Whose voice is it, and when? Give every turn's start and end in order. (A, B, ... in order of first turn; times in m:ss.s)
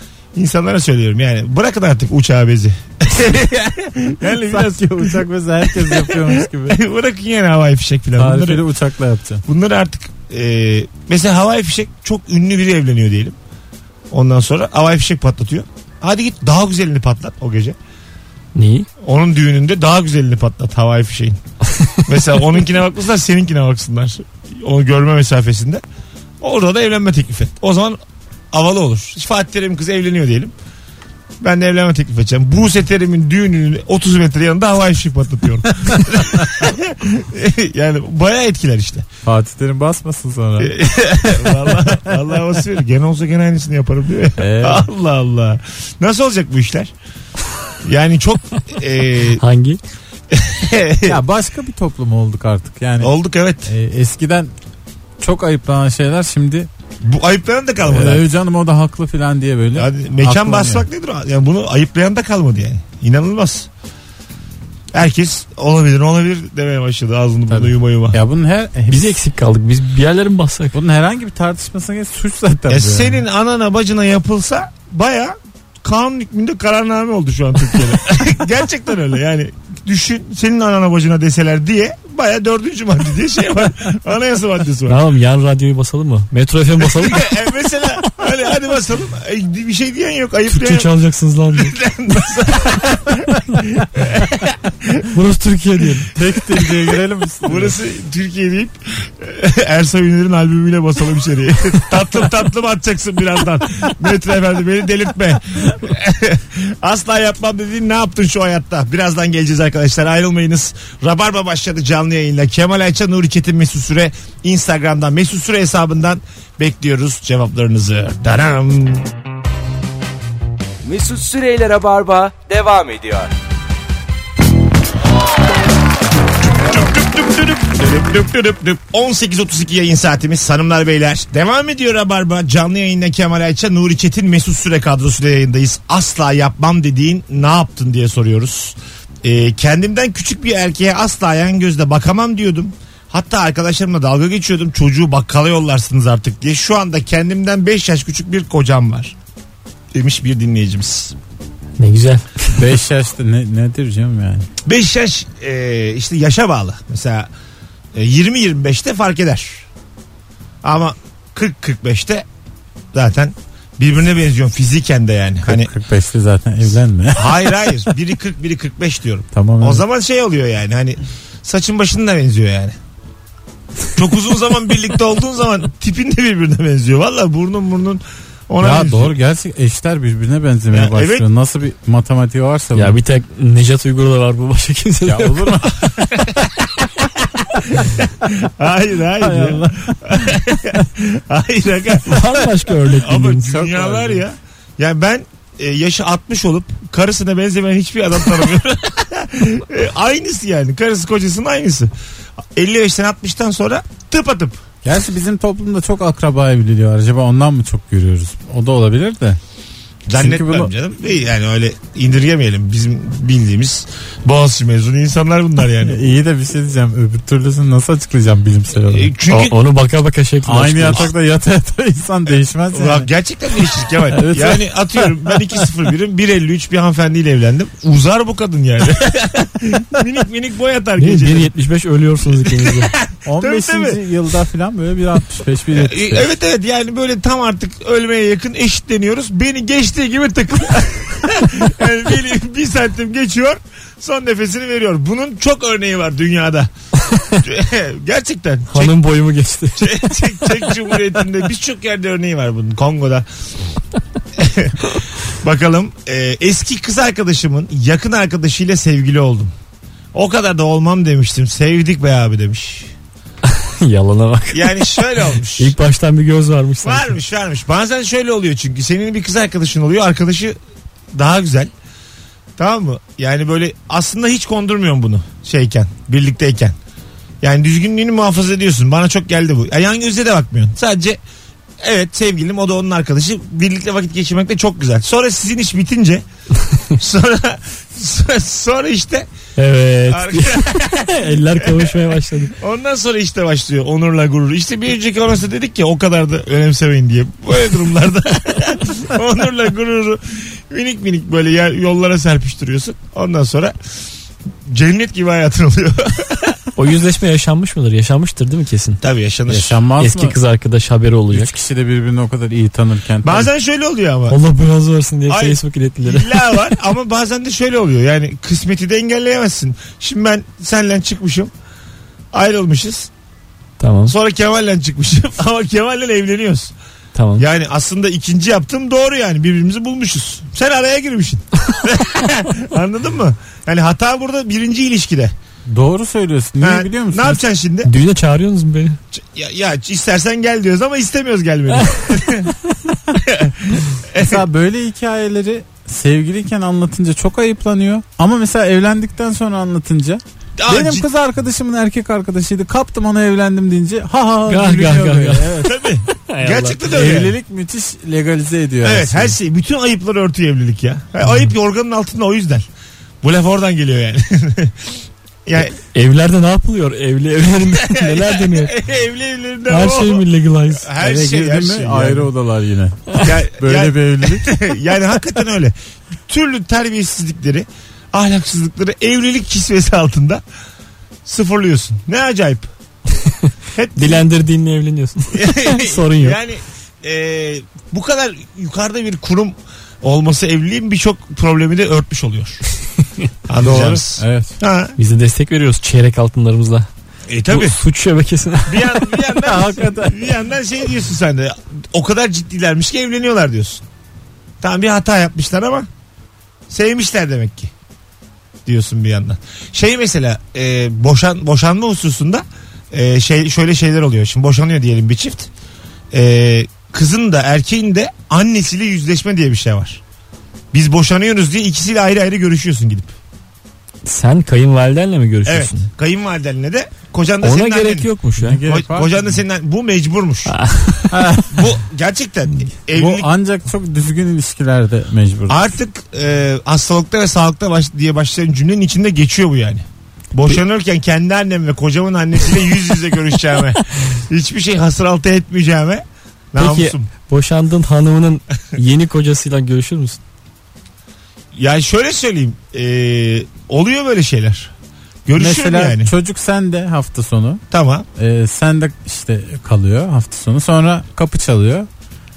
0:00.3-0:08.6 A
0:04.2-0:06.8 B
0:08.2-0:09.4 B
0:09.5-0:13.4 A
0:14.1-0:17.8 A
0:18.5-0:18.9 C
0:19.0-0:21.4 A
0:22.0-0:25.8 A
0:26.4-0:28.0 A
0:28.5-0:30.5 A
0:31.4-0:39.0 A
0:39.2-0:40.8 B
0:40.6-0:46.9 A
0:41.4-0:42.0 B
0:44.4-0:44.9 B
0:47.8-0:49.4 A
0:49.4-0:49.8 C
0:50.3-0:51.2 A
0:51.0-0:53.1 B
0:53.0-0:53.7 A
0:53.6-0:54.5 B
0:55.2-0:56.7 B
0:57.0-0:58.2 A
0:57.8-1:00.8 B
0:59.8-1:03.7 A
1:04.9-1:08.2 A
1:07.5-1:09.2 B
1:08.9-1:10.7 C
1:10.7-1:13.2 B
1:12.7-1:25.0 A
1:24.9-1:27.3 C
1:26.8-1:30.9 A
1:30.5-1:31.7 C
1:31.5-1:35.1 A
1:35.1-1:36.1 C
1:36.1-1:37.8 B
1:36.6-1:59.1 A
2:00.8-2:03.3 D
2:06.7-2:29.1 A
2:29.9-2:31.1 A
2:31.8-2:32.6 C
2:32.5-2:34.5 B
2:34.6-2:37.3 A
2:37.9-2:39.6 A
2:40.6-2:42.2 A
2:42.9-2:45.7 A
2:45.4-2:47.6 B
2:47.1-2:52.8 A
2:49.3-2:49.8 B
2:54.0-2:59.1 A
2:58.6-3:03.0 B
3:00.7-3:01.2 A
3:02.7-3:05.6 C
3:05.0-3:06.2 B
3:05.8-3:06.8 A
3:07.6-3:21.9 A
3:09.2-3:10.4 B
3:12.0-3:13.5 C
3:13.4-3:14.2 B
3:22.5-3:24.6 A
3:24.8-3:29.4 B
3:30.1-3:36.0 A
3:30.2-3:30.7 B
3:35.8-3:39.1 B
3:38.9-3:39.6 A
3:39.3-3:41.1 C
3:40.4-3:43.1 B
3:42.7-3:51.5 A
3:44.1-3:45.6 B
3:51.0-3:52.9 C
3:52.3-3:54.0 A
3:53.2-3:56.3 B
3:55.7-4:06.7 A
4:07.1-4:07.4 C
4:07.4-4:08.9 A
4:08.7-4:10.2 C
4:09.8-4:13.2 A
4:14.4-4:19.5 A
4:20.1-4:22.9 A
4:23.4-4:25.0 C
4:24.5-4:25.7 A
4:25.6-4:27.2 C
4:26.8-4:30.6 A
4:31.1-4:31.7 A
4:32.6-4:36.8 A
4:37.4-4:41.2 A
4:41.8-4:46.2 A
4:46.9-4:49.3 A
4:49.6-4:52.6 C
4:50.1-5:03.7 A
5:04.6-5:06.6 A
5:06.8-5:09.0 C
5:09.0-5:09.8 A
5:09.5-5:10.4 B
5:10.0-5:11.5 C
5:11.3-5:13.5 B
5:13.2-5:14.4 A
5:14.3-5:16.6 C
5:15.3-5:21.5 A
5:22.3-5:23.1 A
5:23.8-5:24.1 C
5:24.0-5:26.7 A
5:27.1-5:27.4 C
5:27.4-5:35.3 A
5:35.7-5:37.4 B
5:36.6-5:37.9 A
5:37.8-5:39.0 C
5:39.1-5:42.5 A
5:43.2-5:44.4 A
5:44.1-5:55.7 B
5:50.6-5:51.1 A
5:54.5-5:57.2 C
5:55.6-5:57.4 A
5:56.9-5:59.4 B
5:58.8-6:02.6 A
6:03.2-6:04.9 A
6:05.4-6:05.8 A
6:05.9-6:08.7 C
6:07.7-6:12.3 A
6:09.7-6:10.9 C
6:11.0-6:14.6 B
6:13.2-6:15.7 A
6:16.2-6:20.4 A
6:21.2-6:22.7 A
6:23.2-6:26.4 C
6:23.7-6:24.2 A
6:25.3-6:32.6 A
6:33.5-6:34.9 A
6:33.6-6:34.6 B
6:35.0-6:36.9 C
6:37.3-6:37.8 A
6:37.5-6:39.1 C
6:38.6-6:43.8 A
6:39.4-6:40.2 B
6:44.6-6:45.9 A
6:46.7-6:47.7 A
6:48.6-6:55.5 A
6:56.1-7:00.0 A
7:00.7-7:03.1 A
7:04.0-7:05.9 C
7:05.4-7:08.1 A
7:07.4-7:08.6 C
7:08.4-7:09.2 B
7:08.6-7:10.5 A
7:10.4-7:11.2 C
7:11.1-7:11.6 B
7:11.5-7:13.3 A
7:12.9-7:15.7 B
7:15.5-7:27.0 A
7:26.6-7:30.2 C
7:31.5-7:34.7 A
7:35.2-7:36.1 A
7:35.4-7:37.6 B
7:37.7-7:38.0 A
7:38.2-7:41.9 B